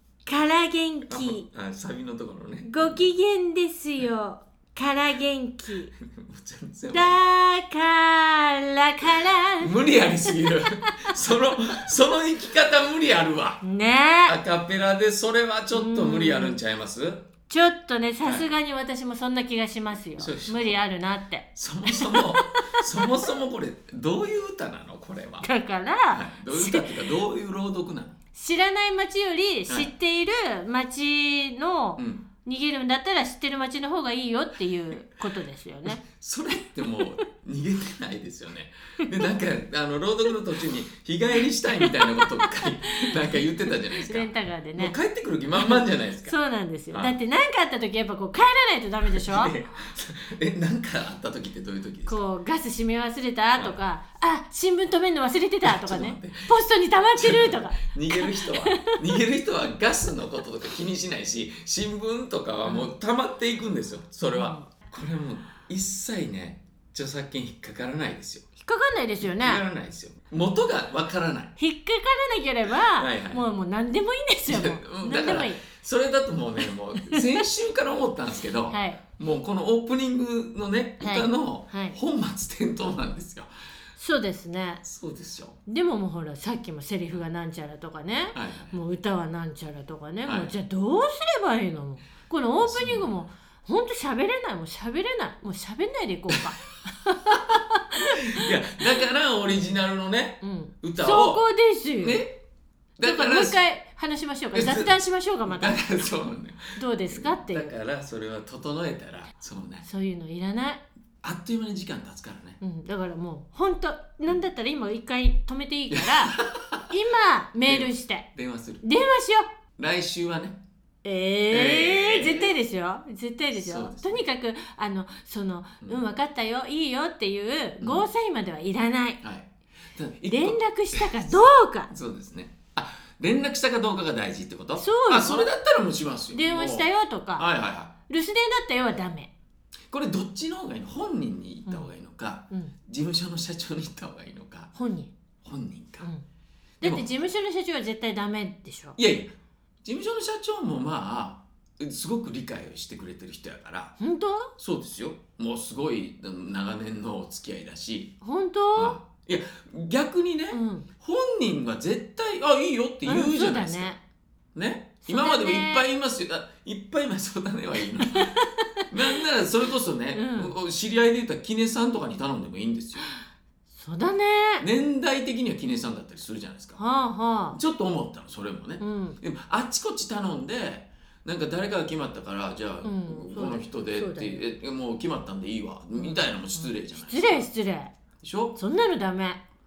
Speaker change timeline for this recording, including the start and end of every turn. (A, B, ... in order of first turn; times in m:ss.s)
0:00.3-0:01.5 A
0:01.1-0:03.1 B
0:02.7-0:05.9 A
0:06.0-0:07.2 B
0:06.9-0:11.1 A
0:09.6-0:13.6 B
0:13.6-0:14.4 A
0:14.3-0:17.3 B
0:15.7-0:16.6 A
0:17.5-0:23.2 A
0:18.2-0:18.5 B
0:20.2-0:20.8 B
0:21.6-0:25.5 B
0:25.4-0:27.1 A
0:26.1-0:28.2 B
0:28.3-0:36.0 A
0:32.0-0:32.3 B
0:35.9-0:46.4 B
0:41.8-0:45.0 A
0:45.6-0:49.5 A
0:49.1-0:52.2 B
0:52.1-0:59.2 A
0:53.6-0:53.8 B
0:55.6-0:56.5 B
0:57.2-1:08.5 B
1:02.6-1:02.9 A
1:04.3-1:04.7 A
1:08.6-1:09.6 A
1:09.2-1:11.6 B
1:11.6-1:15.6 A
1:13.0-1:13.4 B
1:14.5-1:23.5 B
1:17.0-1:17.4 A
1:18.7-1:19.0 A
1:21.0-1:22.0 A
1:24.0-1:24.8 A
1:24.8-1:25.6 B
1:25.7-1:38.5 A
1:28.3-1:28.7 B
1:30.3-1:30.5 B
1:32.6-1:33.3 B
1:37.3-1:37.6 B
1:38.1-1:41.4 B
1:39.5-1:39.8 A
1:40.4-1:42.2 A
1:42.0-1:42.4 B
1:43.0-1:43.6 B
1:43.0-1:45.9 A
1:44.5-1:49.9 B
1:46.8-1:47.7 A
1:49.8-1:50.8 A
1:51.2-1:52.6 B
1:52.6-1:56.4 A
1:55.9-1:56.9 B
1:56.9-1:58.3 A
1:57.7-1:58.8 B
1:58.8-1:59.5 A
1:59.8-2:00.6 B
2:01.0-2:09.2 A
2:01.5-2:02.6 B
2:03.6-2:04.2 B
2:07.8-2:08.1 B
2:09.2-2:17.9 B
2:10.3-2:11.9 A
2:14.8-2:15.5 A
2:16.3-2:17.5 A
2:18.1-2:19.3 A
2:19.9-2:24.7 B
2:24.8-2:25.1 A
2:25.4-2:26.1 B
2:26.8-2:27.1 B
2:26.8-2:29.0 A
2:29.0-2:29.3 B
2:29.8-2:34.0 B
2:34.0-2:34.5 A
2:34.6-2:38.2 B
2:38.2-2:39.0 A
2:38.8-2:43.9 B
2:40.5-2:40.9 A
2:43.1-2:44.0 A
2:44.6-2:48.4 B
2:45.1-2:45.8 A
2:48.1-2:49.2 A
2:48.9-2:53.0 B
2:50.1-2:50.5 A
2:53.7-2:54.7 A
2:54.6-2:56.8 B
2:56.8-2:57.6 A
2:57.5-3:07.5 B
2:58.8-2:59.2 A
3:02.8-3:04.4 A
3:06.0-3:07.9 A
3:08.2-3:08.6 B
3:08.6-3:09.4 A